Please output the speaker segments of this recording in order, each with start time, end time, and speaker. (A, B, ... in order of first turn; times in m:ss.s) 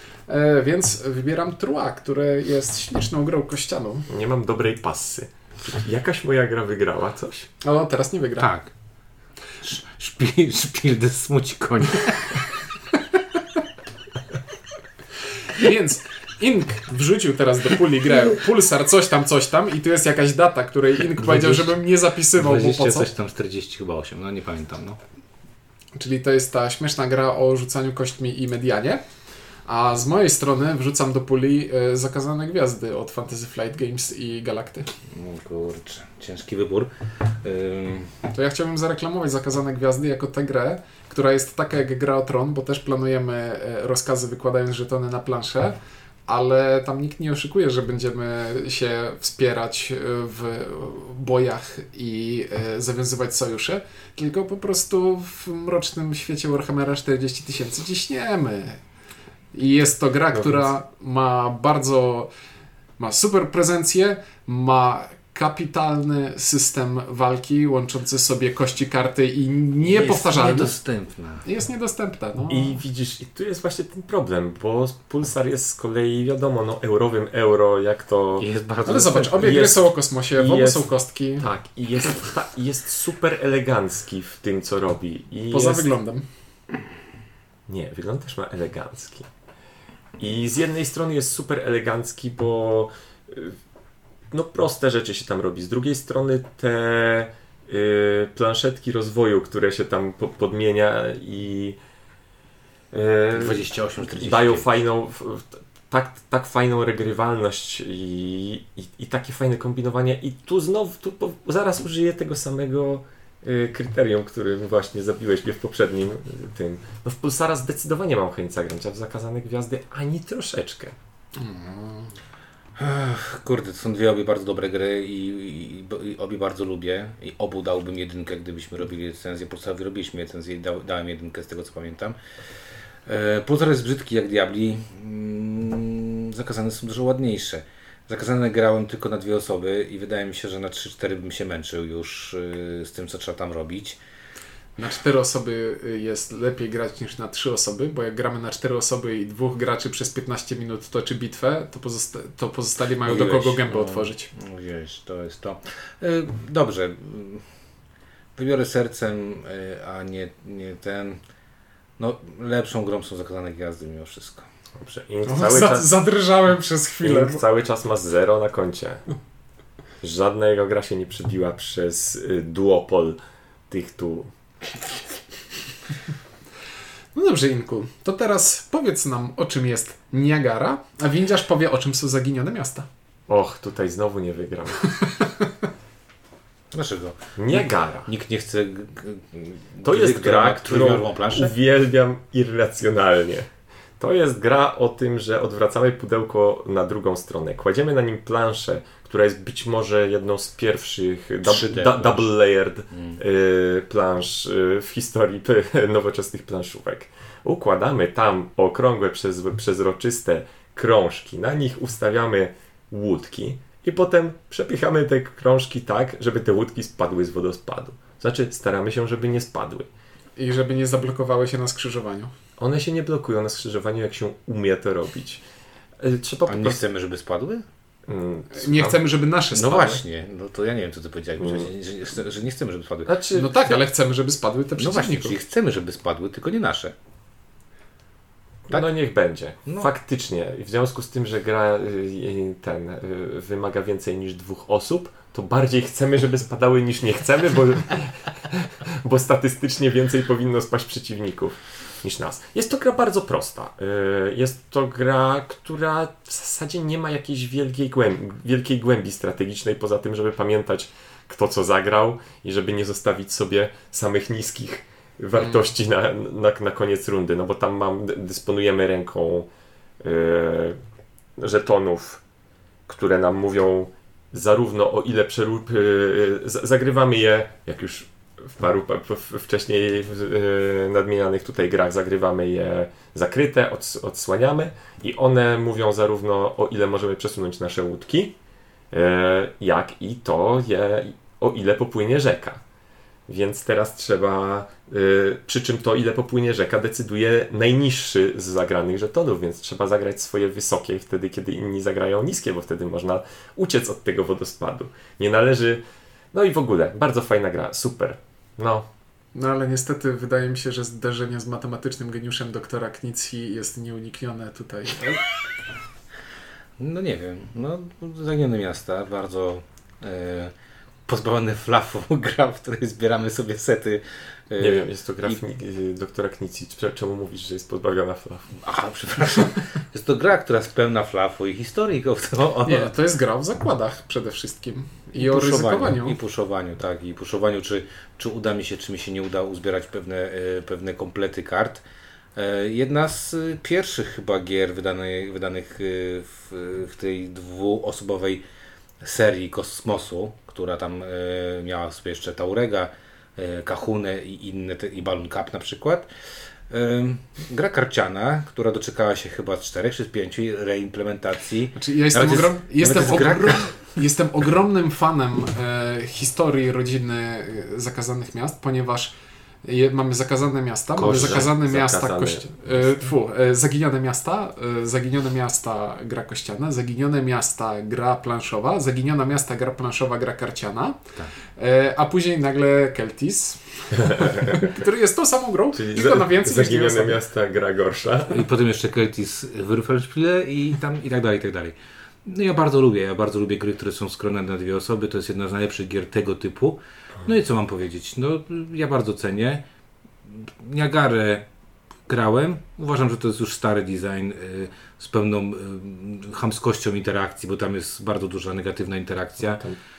0:00.3-0:04.0 A
0:04.1-0:07.5 B
0:07.6-0:08.5 A
0:08.4-0:08.7 C
0:09.6-0:12.3 C
0:15.5-0:23.1 A
0:21.2-0:21.8 C
0:22.3-0:25.0 C
0:26.0-0:29.0 A
0:29.6-0:34.9 A
0:35.1-0:36.9 C
0:37.4-0:38.1 C
0:38.3-0:58.8 A
0:59.5-1:02.3 A
1:00.3-1:00.6 B
1:03.0-1:10.8 A
1:09.8-1:11.4 C
1:11.4-1:12.8 A
1:12.5-1:18.5 B
1:18.4-1:19.6 C
1:18.8-1:21.5 A
1:19.4-1:25.9 B
1:25.5-1:26.2 A
1:27.7-1:29.3 B
1:30.2-1:33.6 B
1:34.3-1:41.8 B
1:42.9-1:43.6 B
1:43.3-1:44.7 C
1:44.1-2:01.0 B
2:01.4-2:02.1 A
2:02.8-2:12.2 C
2:13.0-2:24.0 C
2:24.8-2:34.3 A
2:33.0-2:37.4 C
2:38.4-2:41.2 C
2:42.0-2:44.5 C
2:44.8-2:45.9 B
2:45.2-2:47.4 A
2:47.0-2:49.0 B
2:50.0-2:53.2 B
2:53.7-2:54.3 B
2:57.1-3:02.9 A
3:03.3-3:04.9 B
3:06.7-3:11.5 C
3:07.4-3:08.1 B
3:09.8-3:39.9 B
3:21.4-3:22.3 C
3:22.9-3:23.2 C
3:40.4-3:42.3 A
3:42.6-3:45.4 B
3:46.0-3:46.8 B
3:46.4-3:47.6 C
3:48.1-3:49.0 B
3:48.5-3:50.0 A
3:49.5-3:53.1 C
3:51.4-3:51.7 B
3:53.1-3:53.8 B
3:53.3-3:55.4 A
3:54.8-3:56.9 C
3:58.7-4:29.5 B
4:25.4-4:25.6 A
4:30.0-4:30.8 B
4:31.4-4:32.2 B
4:32.9-4:48.4 B
4:48.9-4:52.6 B
4:53.3-5:08.9 B
5:09.3-5:15.2 A
5:16.8-5:20.5 C
5:21.1-5:25.4 C
5:24.6-5:28.5 B
5:28.5-5:32.9 C
5:32.6-5:36.2 A
5:35.2-5:41.8 C
5:42.4-5:48.4 C
5:49.0-5:56.1 C
5:56.7-6:03.7 C
6:01.8-6:21.0 A
6:11.0-6:11.5 C
6:11.0-6:12.5 B
6:21.6-6:27.2 A
6:23.9-6:24.7 B
6:25.7-6:28.4 B
6:28.3-6:39.6 C
6:40.2-6:41.4 C
6:42.1-6:49.6 C
6:49.5-6:49.8 B